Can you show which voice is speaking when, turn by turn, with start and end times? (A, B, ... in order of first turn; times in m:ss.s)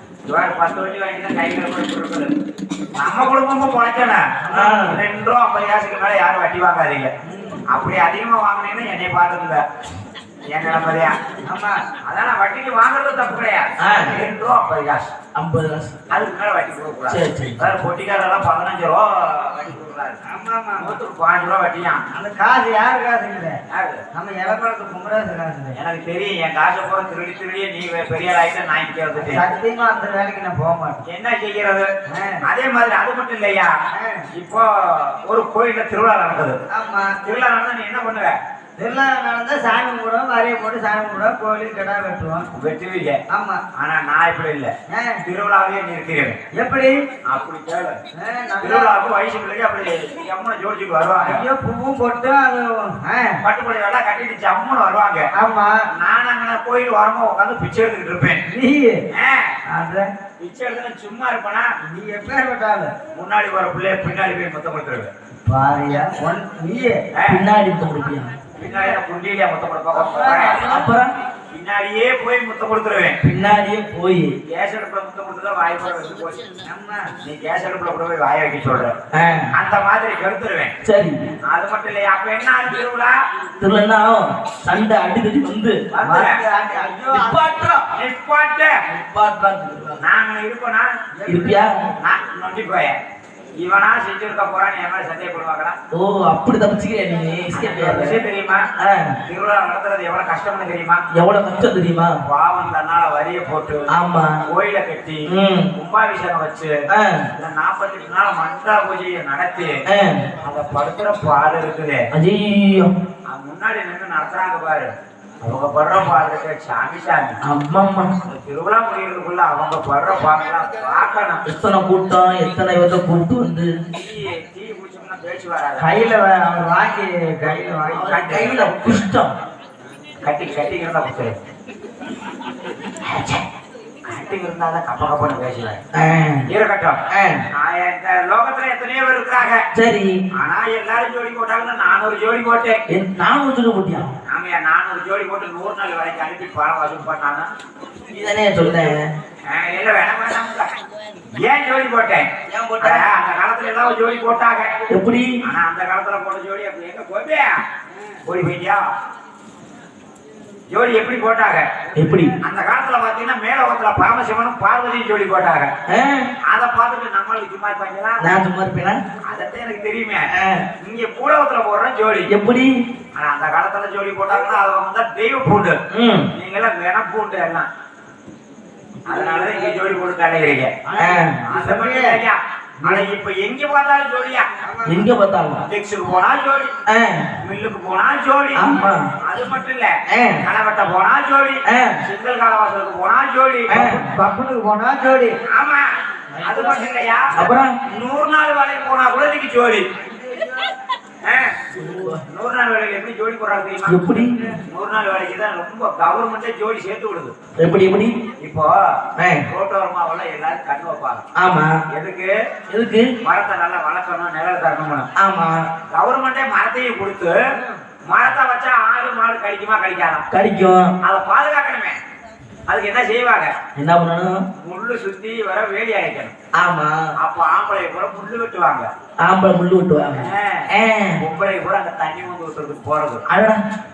0:00.3-0:02.3 A
0:03.0-0:07.1 A
0:04.4-0:04.8 B
0:04.5-0:05.0 C
0:07.2-0:07.7 B
0:07.7-0:09.6 A
0:10.5-0:11.1 A
0:11.4-0:11.8 B
0:12.0-0:15.1 A
0:13.8-0:14.2 C
0:15.4-0:16.0 C
0:16.1-0:20.2 A
0:17.1-0:17.7 C
0:20.2-0:21.0 B
0:20.8-0:22.0 A
0:22.1-0:23.6 B
0:23.7-0:24.0 A
0:24.1-0:25.8 B
0:25.8-0:29.5 A
0:29.2-0:31.0 B
0:31.0-0:31.9 A
0:32.1-0:32.5 B
0:32.4-0:33.8 A
0:33.9-0:34.3 B
0:34.3-0:36.6 A
0:36.7-0:37.2 B
0:37.2-0:38.4 A
0:38.8-0:42.5 B
0:42.5-0:43.2 A
0:43.3-0:43.6 B
0:43.8-0:44.7 A
0:44.9-0:45.2 B
0:45.2-0:46.4 A
0:46.5-0:47.0 B
0:47.2-0:48.0 A
0:48.2-0:48.9 B
0:48.6-0:51.4 A
0:51.2-0:53.4 B
0:53.4-0:55.3 A
0:55.3-0:55.8 B
0:55.9-0:58.4 A
0:58.5-0:59.0 B
0:59.1-0:59.6 A
0:59.7-1:00.1 B
1:00.4-1:01.7 A
1:01.8-1:02.9 B
1:03.1-1:05.1 A
1:05.5-1:07.0 B
1:07.1-1:07.4 A
1:07.3-1:08.3 C
1:08.6-1:10.7 A
1:08.6-1:08.9 B
1:09.9-1:10.8 B
1:10.6-1:11.1 C
1:11.5-1:13.2 A
1:13.2-1:14.4 C
1:14.5-1:16.4 A
1:16.6-1:17.1 B
1:17.2-1:19.0 A
1:19.1-1:19.5 C
1:19.5-1:20.7 A
1:20.8-1:21.2 C
1:21.4-1:23.2 A
1:23.6-1:25.8 C
1:25.9-1:26.4 A
1:26.0-1:27.6 B
1:27.0-1:27.9 C
1:27.9-1:28.8 A
1:28.9-1:30.0 C
1:30.0-1:30.9 A
1:31.1-1:31.9 B
1:31.3-1:31.7 C
1:32.0-1:33.0 A
1:33.6-1:35.8 A
1:35.9-1:38.2 C
1:37.5-1:38.6 A
1:38.8-1:39.2 C
1:39.3-1:41.0 A
1:41.1-1:42.2 C
1:42.2-1:43.9 A
1:43.9-1:44.4 C
1:44.5-1:46.7 A
1:45.3-1:45.7 C
1:46.9-1:47.3 C
1:47.4-1:49.8 A
1:49.9-1:50.3 C
1:50.4-1:52.0 A
1:52.2-1:52.9 C
1:53.3-1:57.4 A
1:57.4-1:58.2 C
1:58.3-2:01.4 A
2:01.5-2:03.7 C
2:03.9-2:06.0 A
2:05.8-2:08.5 B
2:07.9-2:09.0 A
2:07.9-2:09.3 C
2:10.2-2:11.4 A
2:13.0-2:13.4 A
2:14.0-2:15.8 A
2:15.9-2:16.5 C
2:16.5-2:17.0 A
2:17.1-2:17.5 C
2:17.5-2:19.7 A
2:19.7-2:20.1 C
2:20.4-2:22.8 A
2:22.9-2:24.2 C
2:24.3-2:27.5 A
2:28.1-2:29.1 C
2:29.5-2:30.7 A
2:31.4-2:34.7 A
2:32.5-2:33.1 C
2:34.9-2:35.3 C
2:35.4-2:37.6 A
2:38.2-2:38.8 A
2:40.7-2:41.8 A
2:41.9-2:42.4 B
2:42.0-2:42.4 C
2:42.4-2:45.7 A
2:45.9-2:46.3 C
2:46.4-2:48.3 A
2:48.2-2:49.0 C
2:49.2-2:50.3 A
2:50.3-2:50.7 C
2:50.8-2:52.3 A
2:52.3-2:52.7 C
2:53.2-2:55.8 A
2:55.9-2:56.3 C
2:56.3-2:57.7 A
2:59.1-3:00.8 A
3:00.9-3:02.2 B
3:01.0-3:01.3 C
3:01.5-3:04.5 A
3:04.6-3:05.1 B
3:04.9-3:05.6 C
3:05.7-3:06.7 A
3:06.9-3:07.3 C
3:07.4-3:13.9 A
3:08.6-3:09.1 C
3:10.1-3:10.5 C
3:11.7-3:12.0 C
3:13.7-3:14.0 C
3:13.8-3:15.4 B
3:15.5-3:15.9 A
3:16.3-3:17.2 B
3:16.4-3:19.9 A
3:17.4-3:17.8 C
3:20.0-3:20.7 B
3:21.2-3:21.6 A
3:21.8-3:22.2 C
3:22.2-3:27.3 A
3:23.9-3:24.4 C
3:24.3-3:24.6 B
3:27.6-3:28.2 C
3:28.4-3:31.3 A
3:29.2-3:29.5 C
3:31.4-3:31.8 C
3:31.9-3:32.3 A
3:32.7-3:33.1 C
3:33.2-3:35.1 A
3:35.2-3:35.6 C
3:35.9-3:37.4 A
3:37.5-3:37.8 B
3:38.1-3:40.3 A
3:40.3-3:40.9 C
3:41.0-3:42.0 A
3:42.7-3:43.5 A
3:43.8-3:44.4 C
3:44.6-3:46.3 A
3:46.6-3:47.0 C
3:47.2-3:48.9 A
3:49.2-3:51.2 C
3:50.1-3:50.7 A
3:51.2-3:53.2 A
3:53.3-3:53.6 C